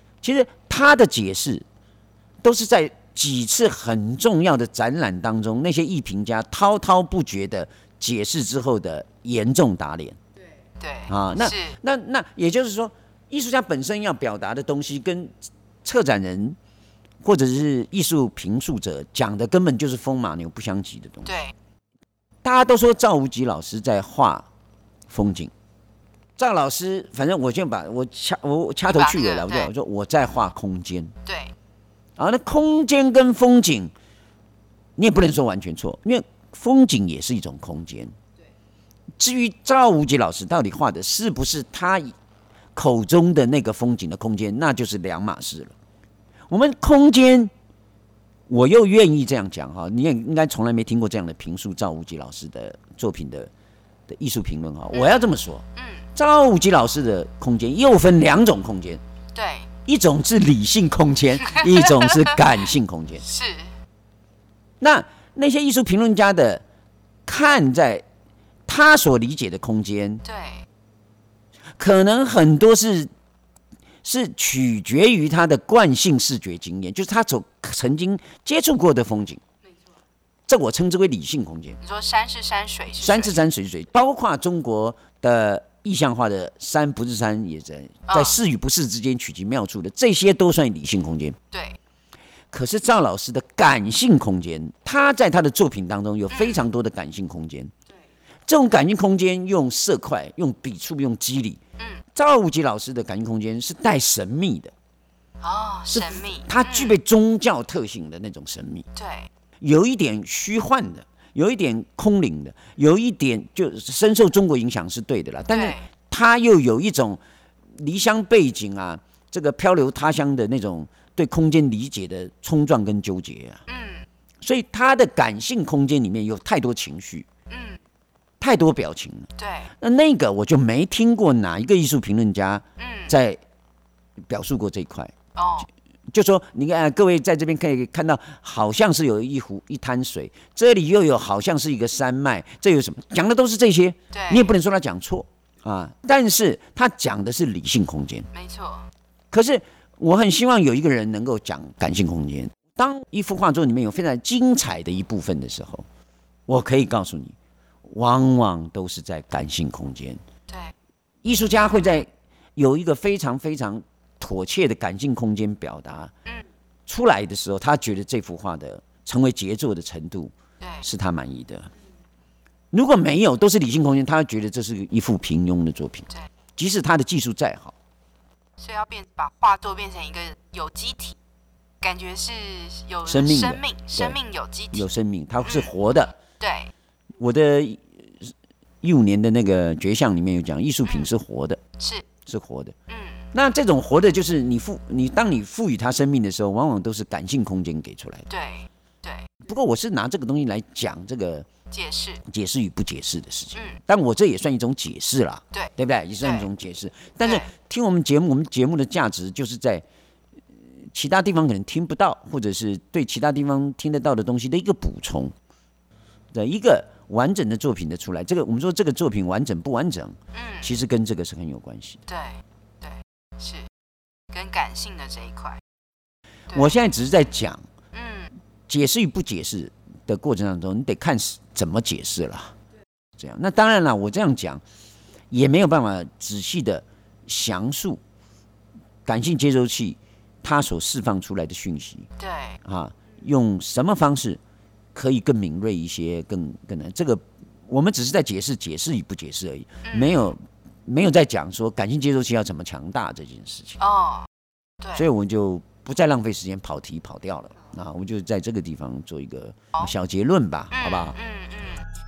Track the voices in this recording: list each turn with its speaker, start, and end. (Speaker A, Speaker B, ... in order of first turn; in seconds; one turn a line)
Speaker A: 0.2-1.6
Speaker A: 2.4-10.2
Speaker B: 10.8-11.8
Speaker A: 11.1-16.6
Speaker A: 17.2-21.4
Speaker B: 21.2-21.5
Speaker A: 22.4-24.5
Speaker A: 25.1-25.5
Speaker A: 26.4-31.1
Speaker B: 28.9-29.7
Speaker B: 31.2-31.5
Speaker A: 32.2-33.9
Speaker A: 35.0-38.1
Speaker A: 39.2-42.1
Speaker A: 42.7-45.7
Speaker A: 46.5-47.5
Speaker A: 48.5-53.5
Speaker A: 54.1-59.0
Speaker B: 54.9-56.0
Speaker B: 59.3-59.7
Speaker A: 59.8-63.3
Speaker B: 61.5-62.4
Speaker B: 63.2-63.7
Speaker A: 64.8-66.6
Speaker A: 67.2-68.0
Speaker A: 68.7-70.2
Speaker B: 70.2-70.7
Speaker A: 71.8-73.1
Speaker A: 74.0-79.4
Speaker A: 80.5-81.8
Speaker B: 81.8-83.3
Speaker A: 82.9-91.4
Speaker B: 88.1-88.3
Speaker B: 91.5-91.8
Speaker A: 92.5-97.7
Speaker B: 96.3-96.6
Speaker A: 98.5-101.6
Speaker A: 102.1-104.7
Speaker B: 105.4-107.0
Speaker A: 105.9-108.8
Speaker B: 108.9-109.3
Speaker A: 109.6-117.2
Speaker B: 115.5-115.8
Speaker A: 117.8-123.6
Speaker B: 123.7-124.1
Speaker A: 124.4-127.3
Speaker B: 127.5-127.8
Speaker A: 128.4-133.4
Speaker B: 129.4-129.7
Speaker B: 132.8-133.1
Speaker A: 134.2-135.1
Speaker B: 135.3-135.7
Speaker A: 136.1-148.3
Speaker B: 144.1-144.5
Speaker B: 148.3-148.9
Speaker A: 149.3-155.8
Speaker A: 156.5-160.2
Speaker B: 160.5-160.7
Speaker A: 161.2-166.1
Speaker A: 166.9-171.7
Speaker B: 170.6-170.8
Speaker A: 172.7-177.7
Speaker B: 178.6-181.2
Speaker B: 181.8-184.9
Speaker A: 183.1-184.2
Speaker A: 184.7-186.2
Speaker B: 185.4-185.7
Speaker B: 186.4-186.7
Speaker A: 187.2-188.3
Speaker A: 188.8-191.6
Speaker B: 190.8-191.1
Speaker B: 191.8-192.1
Speaker A: 192.2-192.7
Speaker B: 192.9-193.3
Speaker A: 193.3-198.3
Speaker B: 198.3-199.3
Speaker A: 199.4-201.5
Speaker B: 201.7-202.2
Speaker A: 202.2-209.8
Speaker B: 205.5-206.5
Speaker B: 207.2-207.5
Speaker A: 210.9-215.3
Speaker A: 216.3-222.0
Speaker B: 220.3-220.7
Speaker B: 222.1-223.7
Speaker B: 224.3-225.6
Speaker A: 226.5-227.6
Speaker B: 227.9-228.3
Speaker A: 228.7-232.5
Speaker A: 233.2-234.6
Speaker A: 235.3-238.0
Speaker A: 239.1-242.1
Speaker B: 242.2-242.6
Speaker A: 242.6-244.4
Speaker A: 244.9-253.8
Speaker B: 249.9-250.2
Speaker B: 253.8-254.3
Speaker B: 254.8-255.1
Speaker A: 254.9-261.2
Speaker B: 260.7-261.9